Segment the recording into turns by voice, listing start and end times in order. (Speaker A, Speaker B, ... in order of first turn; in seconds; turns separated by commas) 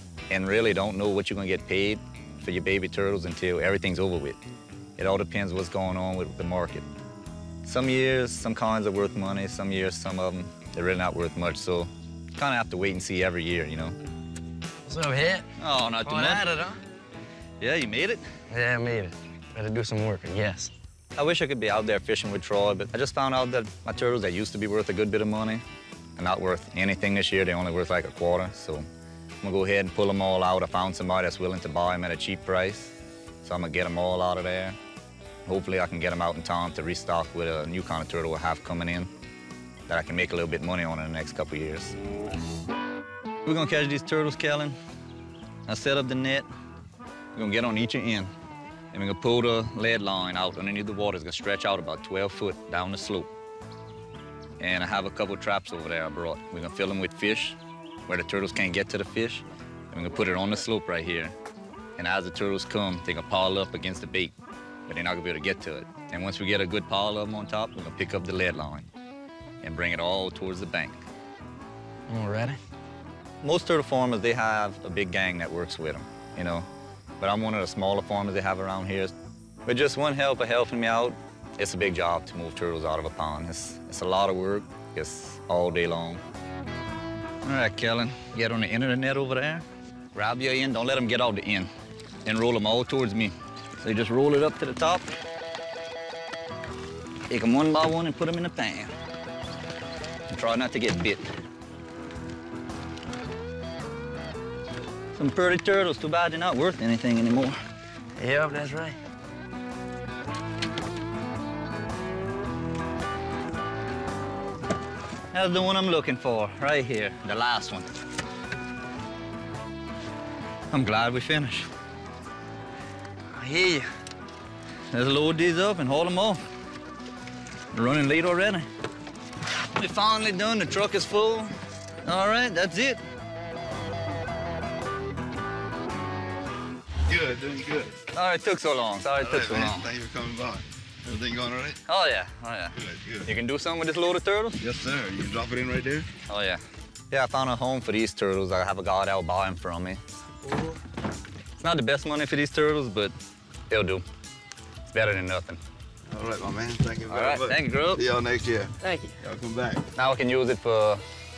Speaker A: 0.3-4.4, Speaker A: 5.0-6.9, Speaker A: 7.6-14.0, Speaker B: 14.9-15.5, Speaker A: 15.6-16.5, Speaker B: 16.0-16.8, Speaker A: 17.6-18.2, Speaker B: 18.5-20.7, Speaker A: 21.2-25.6, Speaker A: 26.2-28.9, Speaker A: 29.4-34.8, Speaker A: 35.5-39.1, Speaker A: 39.9-42.0, Speaker A: 43.5-44.8, Speaker A: 45.7-46.5, Speaker A: 47.4-48.3, Speaker A: 48.9-53.3, Speaker A: 54.6-61.3, Speaker A: 62.0-64.3, Speaker A: 64.9-68.9, Speaker A: 69.6-71.0, Speaker B: 72.1-72.6, Speaker A: 73.4-76.7, Speaker A: 77.2-79.1, Speaker A: 79.7-86.2, Speaker A: 87.4-91.7, Speaker A: 92.2-95.1, Speaker A: 97.3-98.9, Speaker A: 100.3-101.3, Speaker A: 105.2-107.6, Speaker B: 108.2-109.0, Speaker A: 115.3-117.9, Speaker A: 120.7-121.7, Speaker B: 123.3-123.9, Speaker A: 124.9-126.4, Speaker A: 127.7-128.7, Speaker A: 129.5-131.5, Speaker A: 132.0-133.0, Speaker C: 137.1-138.0, Speaker A: 138.1-139.9, Speaker C: 139.2-141.8, Speaker A: 141.8-144.6, Speaker C: 142.8-143.3, Speaker C: 144.6-146.1, Speaker A: 146.3-150.0, Speaker A: 151.6-153.1, Speaker A: 153.7-154.0, Speaker A: 154.9-155.6, Speaker C: 156.1-159.8, Speaker A: 157.1-158.1, Speaker B: 158.8-159.1, Speaker A: 159.9-161.0